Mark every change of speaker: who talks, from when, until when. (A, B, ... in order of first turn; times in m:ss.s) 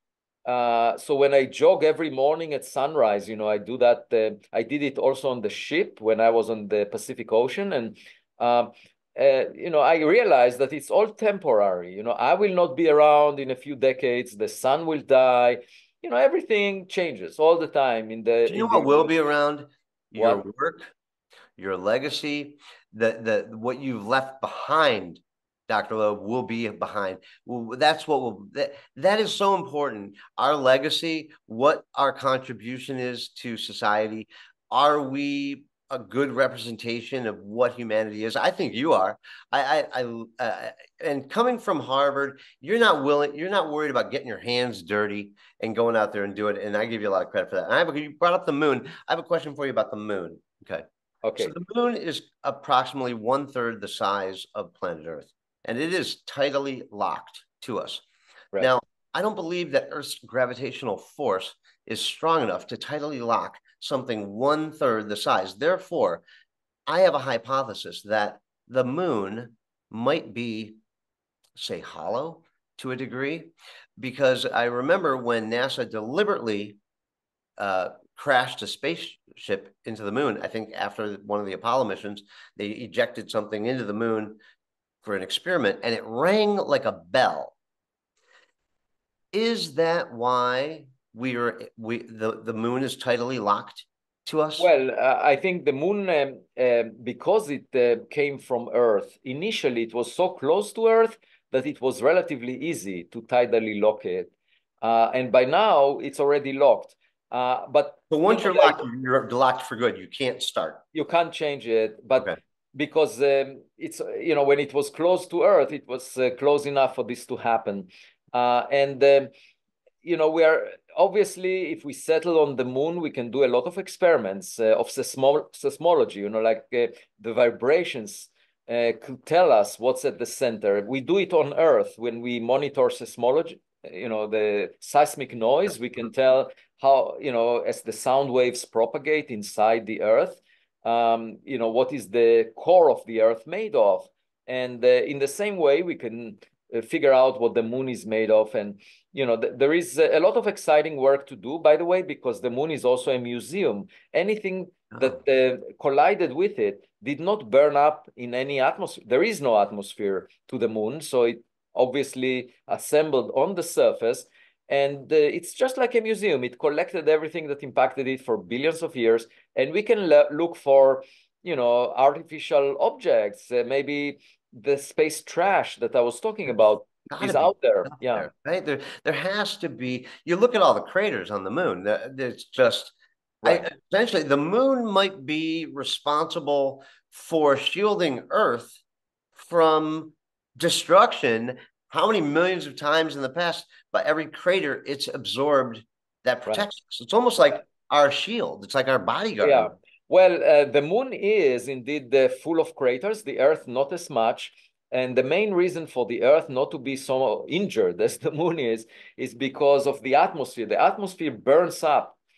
0:00.5-0:19.1 A
0:18.5-0:20.9 B
0:20.2-0:20.4 A
0:21.6-0:50.9 B
0:51.2-0:51.5 A
0:51.4-0:58.0 B
0:58.6-1:06.2 B
1:06.9-1:10.8 B
1:11.6-1:16.8 B
1:17.6-1:24.4 B
1:25.0-1:27.6 B
1:29.3-1:34.7 B
1:34.6-1:48.8 A
1:48.1-1:50.8 B
1:50.9-1:59.3 A
2:00.0-2:58.3 A
2:57.1-3:08.8 B
3:09.4-3:19.7 B
3:19.4-3:32.2 A